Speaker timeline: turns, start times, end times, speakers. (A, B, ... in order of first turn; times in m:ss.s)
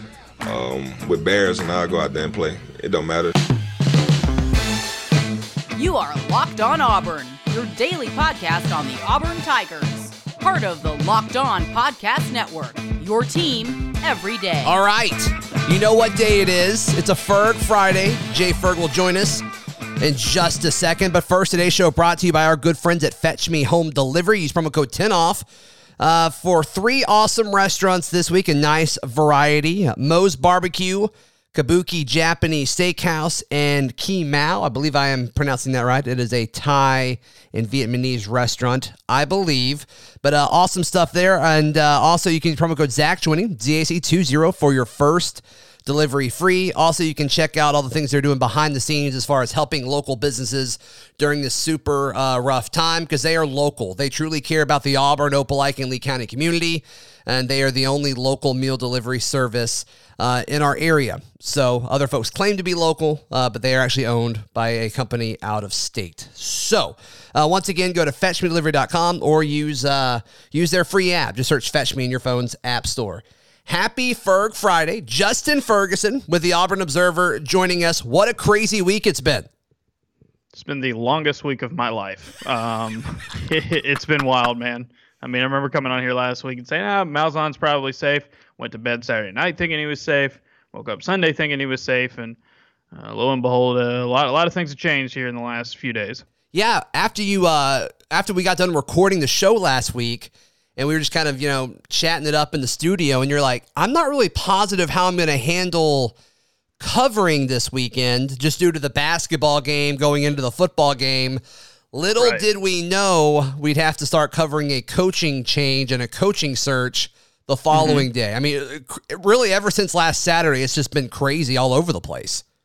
0:00.4-0:03.3 A
0:05.8-0:14.8 B
0:14.6-0:19.4 C
0:20.0-0:25.4 C
0:26.0-1:19.5 C
1:20.5-1:32.4 D
1:32.9-1:36.2 D
1:36.5-1:46.2 C
1:46.8-1:51.4 C
1:51.9-2:02.4 C
1:52.2-1:52.4 D
1:57.7-1:58.1 D